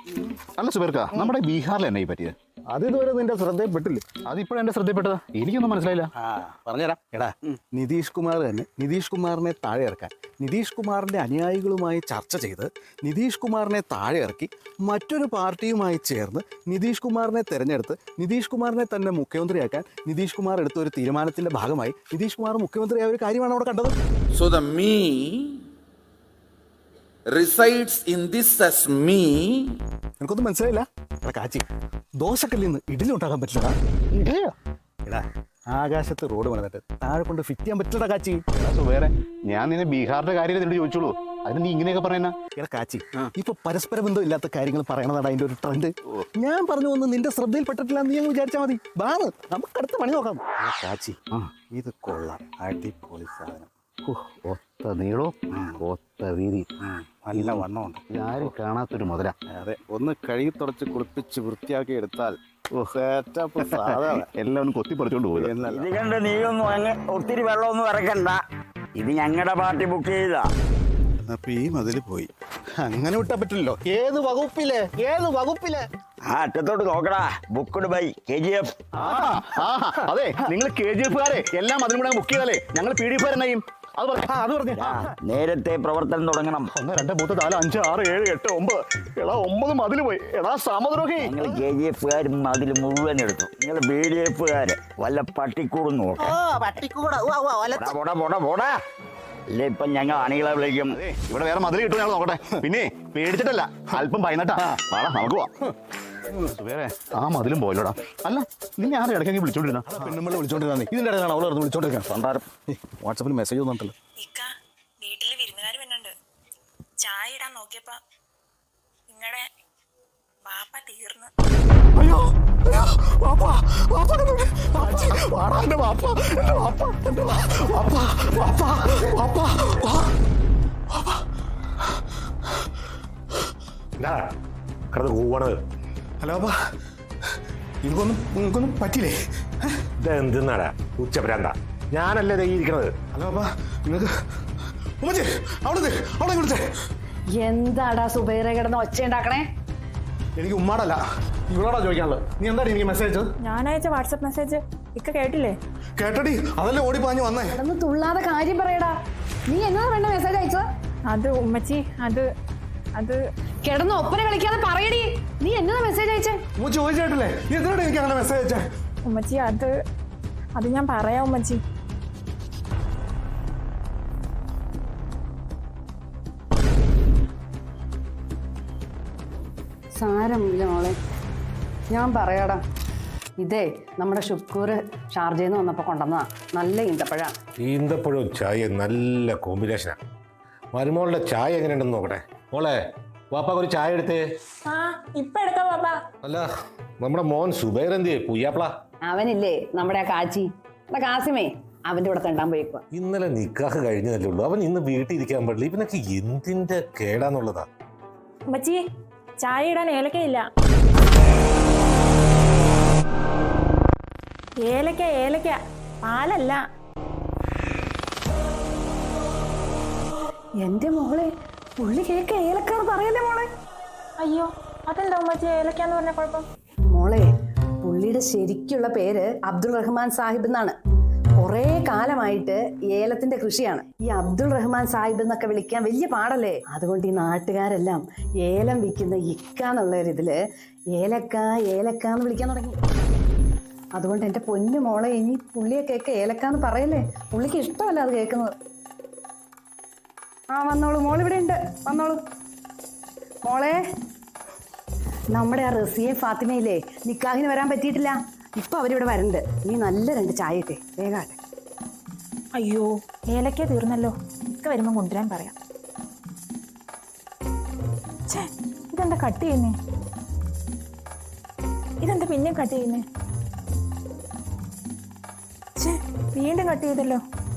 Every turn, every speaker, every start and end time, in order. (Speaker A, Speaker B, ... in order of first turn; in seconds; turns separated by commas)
Speaker A: 0.6-2.4, Speaker B: 2.7-4.1, Speaker A: 4.2-6.1, Speaker B: 6.2-23.9, Speaker C: 24.4-25.5, Speaker C: 27.3-29.7, Speaker B: 30.2-31.6, Speaker B: 32.2-33.8, Speaker B: 35.1-38.5, Speaker A: 38.5-42.5, Speaker B: 42.5-51.2, Speaker A: 51.3-51.7, Speaker B: 51.7-53.7, Speaker A: 54.1-59.4, Speaker B: 57.3-58.0, Speaker B: 59.5-62.2, Speaker A: 60.5-62.1, Speaker A: 62.8-65.8, Speaker B: 63.1-64.1, Speaker D: 65.7-68.4, Speaker D: 69.0-70.5, Speaker B: 71.2-75.8, Speaker D: 76.3-78.8, Speaker A: 79.0-84.8, Speaker B: 79.1-79.5, Speaker B: 84.3-85.1, Speaker D: 84.8-86.7, Speaker B: 86.8-87.8, Speaker A: 87.4-91.3, Speaker D: 91.2-96.4, Speaker D: 97.7-98.8, Speaker D: 99.5-101.0, Speaker A: 100.9-105.5, Speaker A: 106.5-110.0, Speaker B: 109.9-114.0, Speaker E: 114.2-114.5, Speaker E: 115.0-116.1, Speaker E: 117.0-118.0, Speaker E: 119.1-119.5, Speaker E: 120.5-121.3, Speaker B: 122.0-130.1, Speaker B: 130.9-131.2, Speaker F: 134.9-135.5, Speaker B: 136.2-136.6, Speaker B: 137.8-139.8, Speaker F: 140.0-142.9, Speaker B: 143.1-144.1, Speaker B: 145.0-146.7, Speaker G: 147.4-149.4, Speaker B: 150.4-153.3, Speaker E: 153.4-155.6, Speaker B: 156.0-157.6, Speaker G: 157.6-158.9, Speaker G: 159.5-160.7, Speaker E: 161.1-162.2, Speaker G: 163.7-166.4, Speaker B: 166.6-168.7, Speaker E: 169.1-169.7, Speaker E: 170.6-171.6, Speaker G: 180.0-181.0, Speaker G: 181.9-182.6, Speaker G: 183.4-187.3, Speaker F: 187.7-190.0, Speaker F: 190.8-192.7, Speaker F: 193.3-194.2, Speaker E: 194.7-196.0, Speaker F: 197.0-198.7, Speaker G: 199.1-202.8, Speaker F: 203.0-207.6, Speaker E: 208.5-208.8, Speaker E: 209.4-210.4, Speaker E: 214.7-216.6, Speaker G: 220.6-221.3, Speaker G: 221.8-223.5, Speaker E: 224.2-226.4, Speaker G: 226.9-227.3, Speaker G: 227.8-230.8, Speaker G: 231.4-240.4, Speaker G: 241.0-242.8, Speaker G: 244.0-248.5, Speaker G: 250.5-252.2, Speaker G: 253.4-253.8, Speaker G: 255.3-261.4, Speaker E: 262.6-265.6, Speaker E: 268.3-269.8, Speaker E: 272.0-273.0, Speaker E: 275.8-277.2